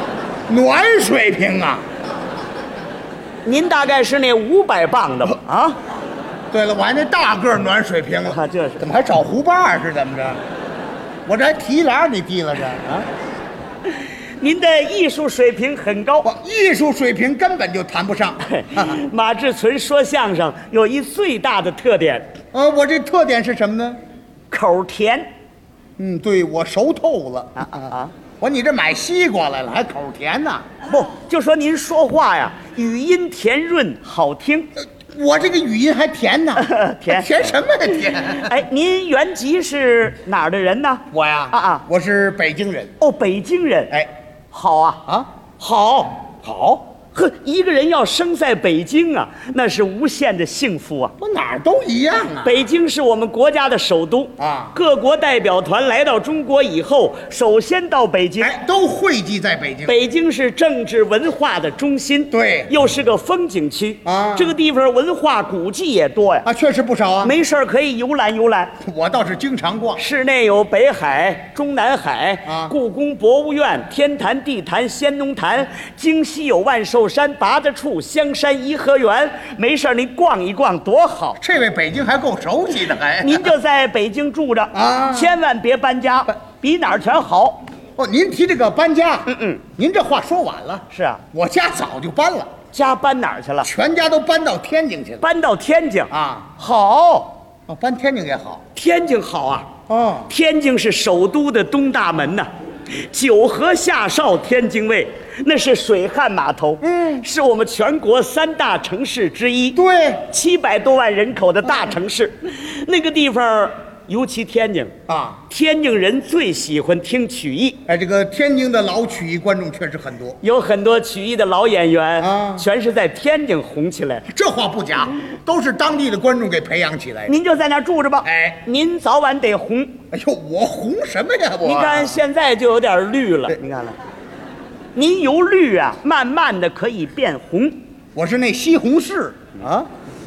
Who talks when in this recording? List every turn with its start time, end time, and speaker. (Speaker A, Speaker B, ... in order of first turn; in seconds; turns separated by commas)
Speaker A: 0.5-1.9, Speaker B: 3.5-5.7, Speaker A: 6.5-10.4, Speaker B: 8.3-8.8, Speaker A: 11.3-13.1, Speaker B: 14.4-16.3, Speaker A: 16.2-19.0, Speaker B: 18.4-22.3, Speaker A: 22.5-24.0, Speaker B: 24.5-25.3, Speaker A: 26.0-30.7, Speaker B: 27.6-28.1, Speaker B: 30.9-34.7, Speaker A: 35.0-38.6, Speaker B: 36.6-37.3, Speaker B: 38.0-41.9, Speaker A: 41.1-43.0, Speaker B: 43.0-43.9, Speaker B: 44.5-45.0, Speaker B: 45.6-46.3, Speaker A: 46.4-46.9, Speaker B: 47.1-51.1, Speaker A: 51.2-52.7, Speaker B: 52.4-58.6, Speaker A: 54.4-54.8, Speaker A: 58.4-60.0, Speaker B: 59.9-66.5, Speaker A: 62.3-62.7, Speaker A: 64.0-64.5, Speaker A: 66.5-67.4, Speaker B: 67.2-68.7, Speaker A: 68.8-70.0, Speaker B: 70.0-81.4, Speaker A: 72.5-72.8, Speaker A: 81.4-83.5, Speaker B: 83.2-87.6, Speaker A: 84.7-85.4, Speaker A: 88.0-92.5, Speaker B: 89.3-89.6, Speaker B: 90.9-91.2, Speaker B: 92.7-93.7, Speaker A: 93.6-95.3, Speaker B: 95.2-97.4, Speaker A: 96.1-96.5, Speaker A: 97.7-98.6, Speaker B: 98.8-99.7, Speaker A: 99.9-100.3, Speaker B: 100.3-102.5, Speaker B: 103.0-109.8, Speaker A: 106.8-107.3, Speaker A: 109.8-110.2, Speaker B: 110.3-114.9, Speaker A: 115.1-115.4, Speaker B: 115.5-117.8, Speaker A: 117.9-120.4, Speaker B: 120.4-124.2, Speaker A: 122.2-122.7, Speaker A: 124.3-127.4, Speaker B: 127.3-130.0, Speaker A: 128.2-128.6, Speaker A: 130.1-132.2, Speaker B: 131.6-133.9, Speaker B: 134.9-137.8, Speaker A: 138.2-139.9